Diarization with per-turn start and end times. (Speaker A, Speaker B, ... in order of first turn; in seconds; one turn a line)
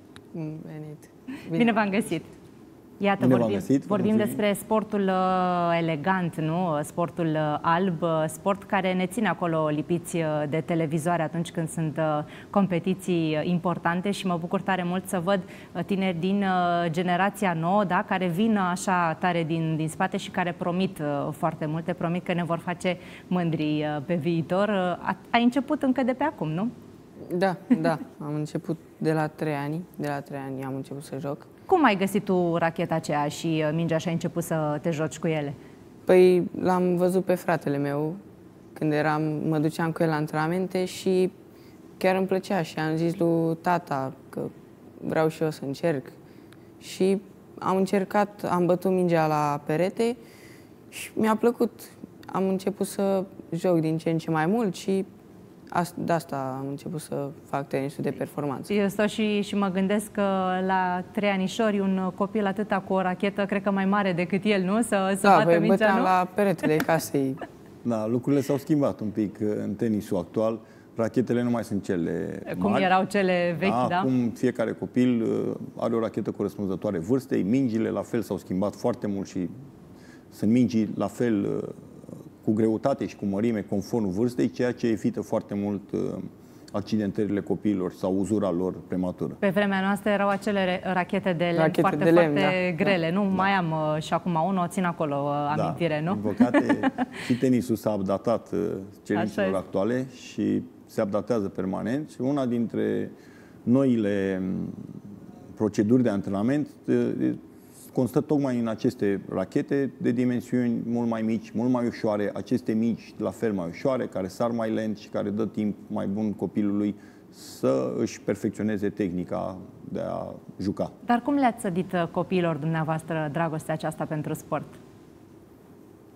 Speaker A: 0.3-1.7
Speaker B: 1.5-2.3
Speaker B: 3.0-26.7
Speaker C: 3.2-4.4
Speaker A: 27.2-31.5
Speaker B: 31.7-35.6
Speaker A: 36.1-38.2
Speaker A: 38.8-41.3
Speaker A: 42.0-46.1
Speaker A: 46.8-50.2
Speaker A: 50.9-55.1
Speaker A: 55.7-58.7
Speaker B: 58.7-66.1
Speaker A: 65.2-67.4
Speaker C: 67.8-72.9
Speaker B: 72.5-74.1
Speaker C: 73.6-79.5
Speaker C: 80.3-81.8
Speaker C: 82.4-89.4
Speaker B: 89.4-96.8
Speaker A: 91.6-93.0
Speaker C: 95.5-103.1
Speaker B: 99.2-99.6
Speaker C: 103.7-104.9
Speaker C: 105.5-107.4
Speaker C: 107.9-120.9
Speaker B: 121.0-124.8